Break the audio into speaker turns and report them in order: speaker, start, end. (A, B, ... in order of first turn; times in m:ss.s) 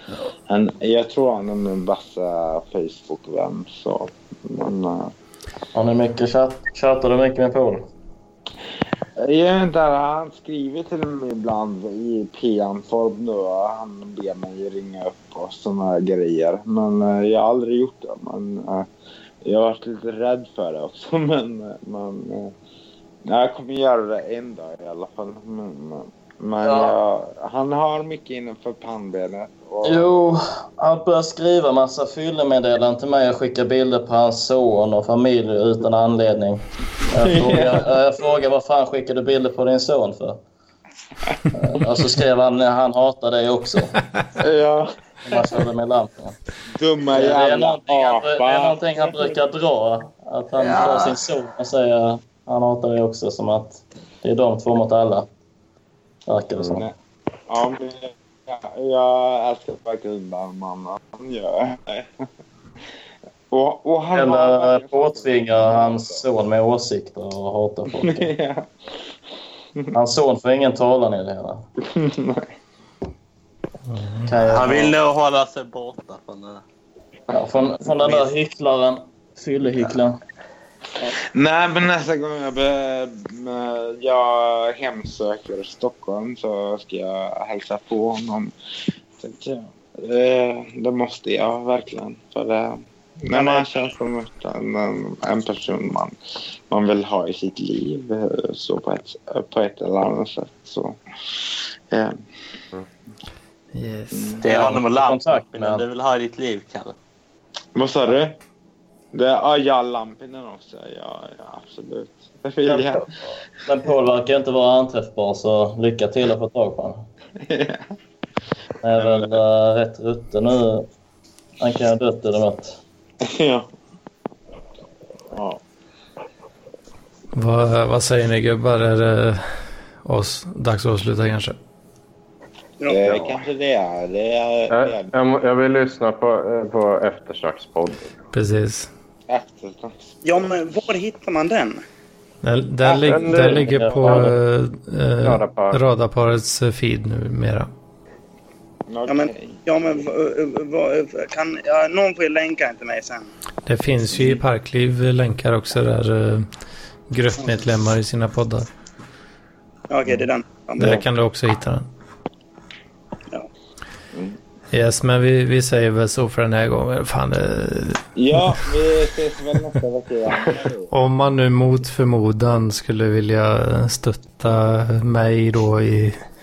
0:00.5-0:05.1 A
0:05.8-0:07.9 B
0:09.2-0:18.9 A
0:19.4-0:22.5 A
0:23.3-0:30.2 A
0:26.6-0:27.0 B
0:29.8-0:40.4 B
0:37.2-0:37.9 A
0:41.5-0:44.0 B
0:44.4-0:44.9 A
0:45.2-0:46.4 B
0:46.8-0:49.2 A
0:47.1-0:55.3 B
0:50.8-0:51.1 A
0:56.3-0:56.9 B
0:57.5-1:02.1 A
1:03.5-1:06.2 A
1:04.1-1:08.3 B
1:08.0-1:08.7 A
1:09.9-1:11.6 B
1:12.0-1:12.4 A
1:13.9-1:14.3 C
1:14.2-1:15.0 B
1:14.4-1:16.6 D
1:17.3-1:20.2 B
1:21.3-1:28.5 A
1:29.2-1:36.1 A
1:33.3-1:33.9 E
1:36.7-1:41.0 A
1:43.7-1:44.6 C
1:44.1-1:44.5 A
1:44.4-1:47.0 D
1:44.5-1:45.8 B
1:47.8-1:48.4 A
1:49.1-1:53.1 A
1:52.7-1:53.0 B
1:53.7-1:57.0 B
1:57.5-1:57.8 A
1:58.8-2:00.9 B
1:59.0-1:59.4 A
2:01.6-2:02.8 B
2:03.3-2:03.7 A
2:05.3-2:05.6 A
2:07.4-2:09.4 C
2:10.0-2:11.6 C
2:12.8-2:13.2 E
2:12.9-2:15.1 A
2:13.1-2:13.4 F
2:14.7-2:18.0 F
2:18.3-2:18.9 C
2:19.3-2:20.0 A
2:20.2-2:21.8 E
2:22.4-2:27.7 C
2:22.9-2:24.4 B
2:22.9-2:24.2 F
2:25.2-2:25.8 F
2:28.9-2:29.6 A
2:29.1-2:33.3 E
2:33.7-2:36.5 C
2:37.1-2:38.7 C
2:39.9-2:41.0 E
2:40.8-2:41.9 C
2:44.7-2:48.6 C
2:48.2-2:50.9 A
2:50.9-2:56.2 C